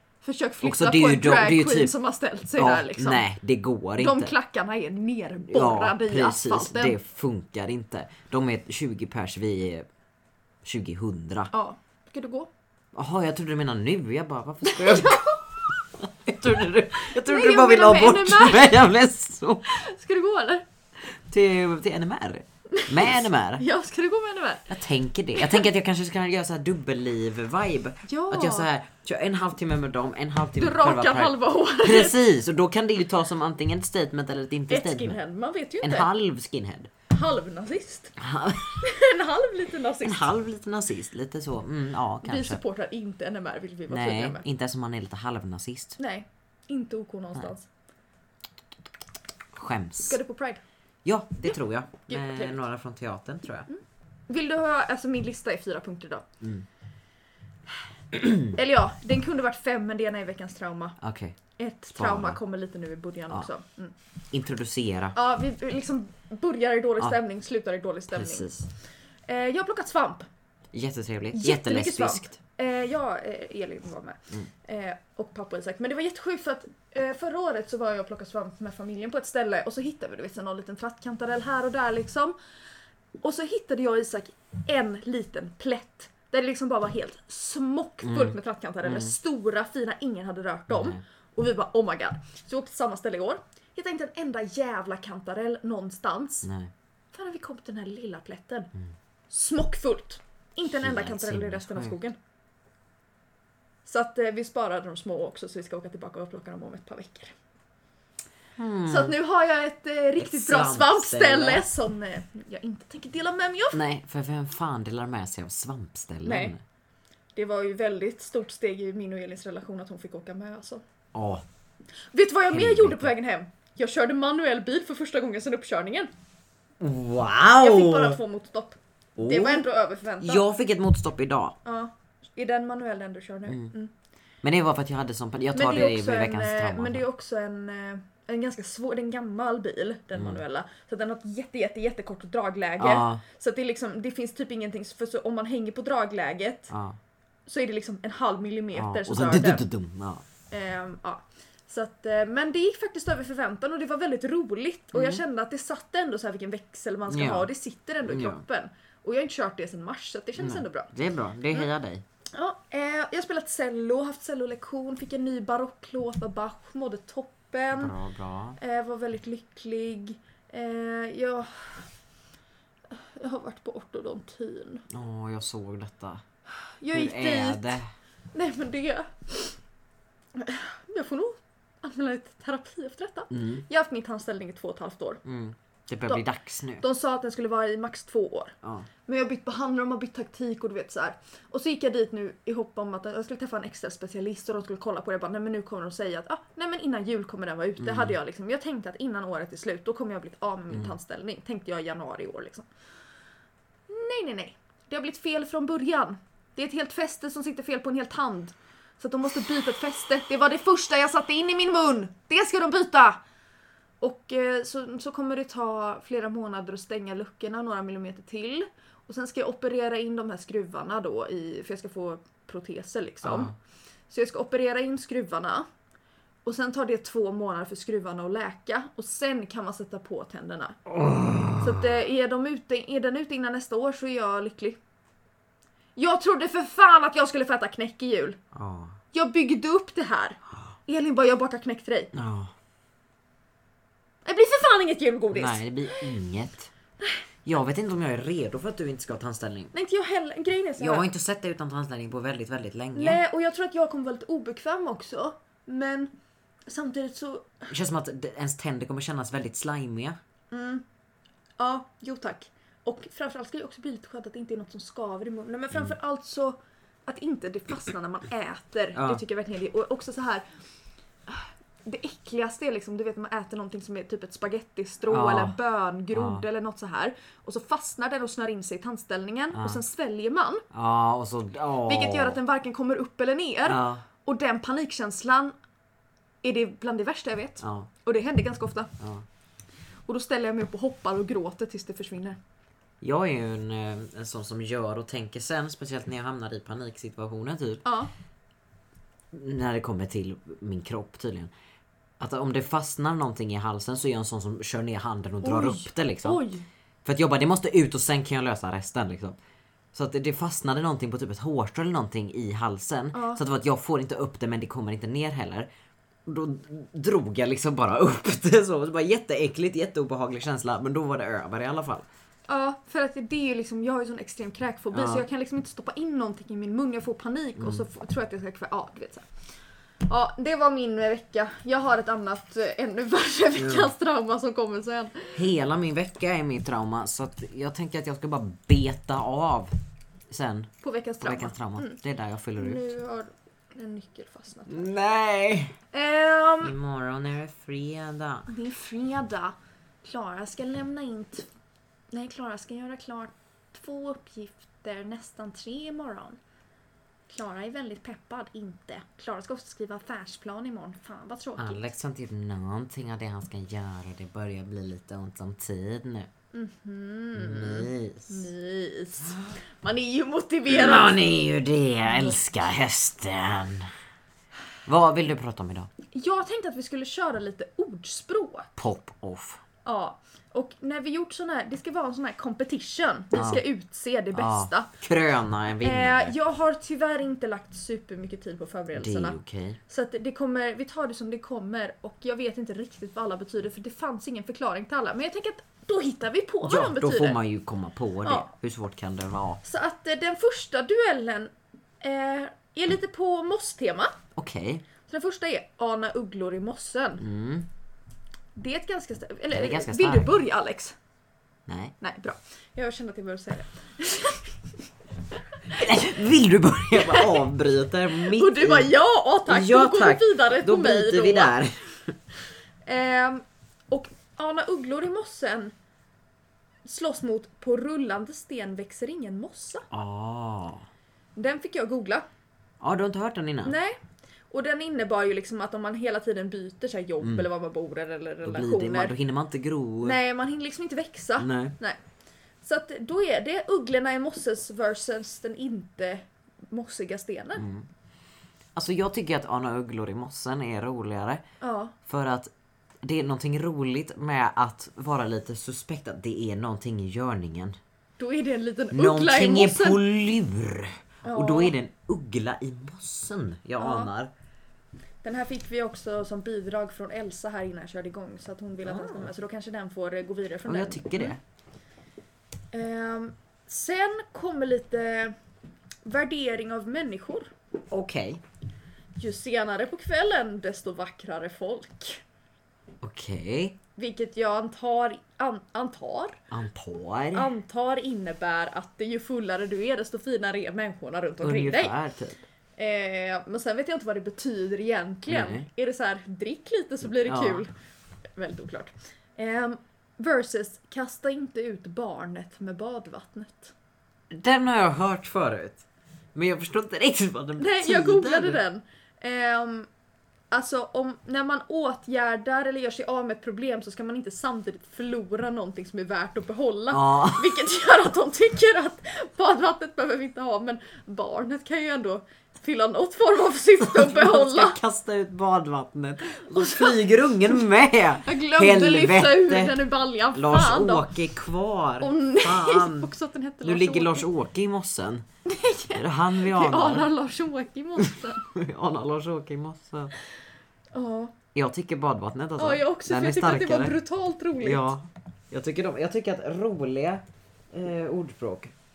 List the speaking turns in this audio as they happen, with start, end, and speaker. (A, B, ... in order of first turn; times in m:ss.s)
0:00.2-0:03.2 A
0:00.6-0:01.9 B
0:02.6-0:04.3 B
0:04.0-0:07.0 A
0:05.5-0:09.9 B
0:10.6-0:11.5 B
0:11.5-0:12.5 A
0:12.9-0:19.7 B
0:14.6-0:15.4 A
0:17.1-0:18.8 A
0:19.6-0:20.6 A
0:21.0-0:23.6 B
0:22.7-0:24.7 A
0:24.7-0:35.2 B
0:25.3-0:25.6 A
0:28.0-0:28.7 A
0:30.6-0:32.2 A
0:34.7-0:36.1 A
0:35.8-0:36.9 B
0:37.1-0:38.1 A
0:38.2-0:38.8 B
0:38.8-0:40.3 A
0:40.0-0:42.6 B
0:42.2-0:44.4 A
0:43.9-0:46.0 B
0:46.0-0:47.7 A
0:49.5-0:50.2 B
0:50.0-0:50.6 A
0:51.0-0:53.7 B
0:52.1-0:52.6 A
0:53.7-0:56.2 A
0:56.4-0:56.6 B
0:58.1-0:58.5 B
0:58.4-1:01.0 A
1:01.0-1:01.4 B
1:01.6-1:03.9 A
1:02.0-1:02.4 B
1:04.3-1:05.2 B
1:05.1-1:08.5 A
1:08.1-1:08.7 B
1:09.3-1:10.2 A
1:10.7-1:12.4 B
1:11.3-1:22.4 A
1:23.2-1:36.5 A
1:28.0-1:29.1 B
1:30.7-1:31.0 B
1:36.4-1:36.7 B
1:37.1-1:38.7 A
1:39.3-1:42.2 A
1:40.8-1:41.9 B
1:43.8-1:47.3 A
1:48.6-1:49.2 B
1:48.8-1:53.8 A
1:50.2-1:51.6 B
1:53.7-1:56.6 B
1:56.2-1:56.5 A
1:57.4-2:00.8 A
2:01.1-2:01.4 B
2:02.1-2:06.1 A
2:02.5-2:03.1 B
2:06.8-2:08.2 B
2:07.6-2:10.4 A
2:09.2-2:09.6 B
2:10.2-2:11.6 B
2:11.6-2:13.9 A
2:13.5-2:13.7 B
2:14.4-2:17.0 B
2:15.5-2:26.7 A
2:20.1-2:20.4 B
2:22.8-2:23.2 B
2:26.7-2:27.0 B
2:27.4-2:29.6 A
2:28.7-2:30.2 B
2:30.5-2:40.9 A
2:34.9-2:35.2 B
2:37.1-2:37.5 B
2:38.0-2:38.4 B
2:40.4-2:42.0 B
2:42.3-2:47.9 A
2:47.8-2:48.6 B
2:48.6-2:51.9 A
2:52.9-2:54.8 A
2:54.9-2:56.2 B
2:56.7-2:57.8 A
2:56.9-2:57.8 B
2:58.3-2:59.6 A
3:00.3-3:05.2 A
3:03.3-3:03.6 B
3:05.2-3:06.8 B
3:06.8-3:08.5 A
3:09.0-3:22.7 A
3:17.8-3:18.2 B
3:23.9-3:33.2 A
3:34.0-3:43.5 A
3:43.2-3:43.5 B
3:44.1-3:45.6 A
3:46.4-3:50.8 A
3:50.9-3:51.9 B
3:51.6-3:54.8 A
3:56.0-3:58.4 A
3:58.5-3:58.9 B
3:59.1-4:02.1 A
4:02.1-4:02.5 B
4:04.2-4:06.1 A
4:05.3-4:06.7 B
4:07.4-4:09.7 B
4:09.7-4:11.1 A
4:10.8-4:13.2 B
4:12.9-4:16.1 A
4:16.7-4:17.7 A
4:17.7-4:20.2 B
4:20.5-4:20.8 A
4:21.6-4:30.4 A
4:28.9-4:29.2 B
4:31.3-4:40.6 A
4:35.1-4:35.6 B
4:36.1-4:36.4 B
4:39.5-4:39.8 B
4:40.7-4:42.4 B
4:41.8-4:45.5 A
4:43.6-4:44.0 B
4:46.4-4:48.9 A
4:47.6-4:47.9 B
4:49.0-4:49.2 B
4:50.1-4:52.4 A
4:53.0-4:57.8 B
4:57.8-4:58.1 A
4:59.3-5:01.5 B
5:02.2-5:06.4 B
5:05.4-5:06.6 A
5:07.0-5:09.4 B
5:09.9-5:15.7 B
5:13.1-5:13.4 A
5:16.2-5:22.0 B
5:22.5-5:29.2 A
5:24.9-5:25.2 B
5:27.6-5:27.8 B
5:30.1-5:35.4 A
5:33.6-5:33.9 B
5:35.3-5:39.7 B
5:40.3-5:40.7 B
5:40.8-5:42.0 A
5:41.2-5:42.9 B
5:42.6-5:44.9 A
5:44.7-5:45.7 B
5:45.9-5:46.8 A
5:46.6-5:48.5 B
5:48.5-5:51.5 A
5:52.1-5:56.4 A
5:57.3-6:01.8 A
6:01.6-6:06.3 B
6:06.5-6:11.2 A
6:07.4-6:08.4 B
6:10.7-6:13.9 B
6:12.1-6:12.4 A
6:14.8-6:15.9 B
6:16.1-6:18.7 A
6:18.8-6:19.6 B
6:19.8-6:24.9 A
6:23.3-6:23.6 B
6:24.3-6:26.3 B
6:25.8-6:37.4 A
6:28.9-6:29.8 B
6:36.6-6:39.6 B
6:38.2-6:38.5 A
6:39.6-6:44.2 A
6:44.4-6:44.8 B
6:45.1-6:47.2 A
6:47.2-6:47.7 B
6:48.5-6:51.0 A
6:49.5-6:50.4 B
6:51.7-6:51.9 B
6:52.0-6:54.5 A
6:55.7-6:56.1 A
6:55.7-6:58.9 B
6:56.9-6:57.4 A
6:58.1-7:01.5 A
6:59.5-7:02.1 B
7:02.8-7:05.7 A
7:06.8-7:09.9 A
7:09.9-7:10.8 B
7:11.4-7:12.3 A
7:12.8-7:13.8 B
7:13.6-7:14.0 A
7:14.5-7:19.1 A
7:17.2-7:17.5 B
7:18.4-7:20.2 B
7:20.0-7:22.0 A
7:21.4-7:21.7 B
7:22.6-7:27.6 A
7:27.6-7:27.9 B
7:28.8-7:31.4 B
7:31.6-7:31.9 A
7:32.0-7:37.8 B
7:38.2-7:40.0 A
7:38.9-7:44.3 B
7:41.2-7:41.7 A
7:43.8-7:44.1 A
7:45.2-7:51.4 A
7:48.8-7:49.3 B
7:50.6-7:51.4 B
7:52.7-7:55.4 A
7:56.0-7:57.5 A
7:57.9-7:58.4 B
7:59.2-8:02.2 A
8:03.0-8:03.8 B
8:04.0-8:06.4 A
8:06.5-8:07.5 B
8:07.3-8:11.9 A
8:11.4-8:12.4 B
8:12.8-8:17.7 A
8:15.3-8:15.6 B
8:17.2-8:17.6 B
8:18.4-8:23.7 A
8:24.3-8:25.8 B
8:26.3-8:28.6 B
8:27.6-8:29.9 A
8:30.5-8:44.8 A
8:36.9-8:37.6 B
8:43.8-8:49.8 B
8:46.3-8:47.0 A
8:48.2-8:51.1 A
8:50.3-8:53.1 B
8:52.0-8:54.3 A
8:53.6-8:55.2 B
8:55.4-8:58.5 A
8:55.9-8:57.1 B
8:58.0-9:00.1 B
9:00.9-9:01.3 A
9:01.5-9:04.0 B
9:02.6-9:04.9 A
9:04.6-9:08.7 B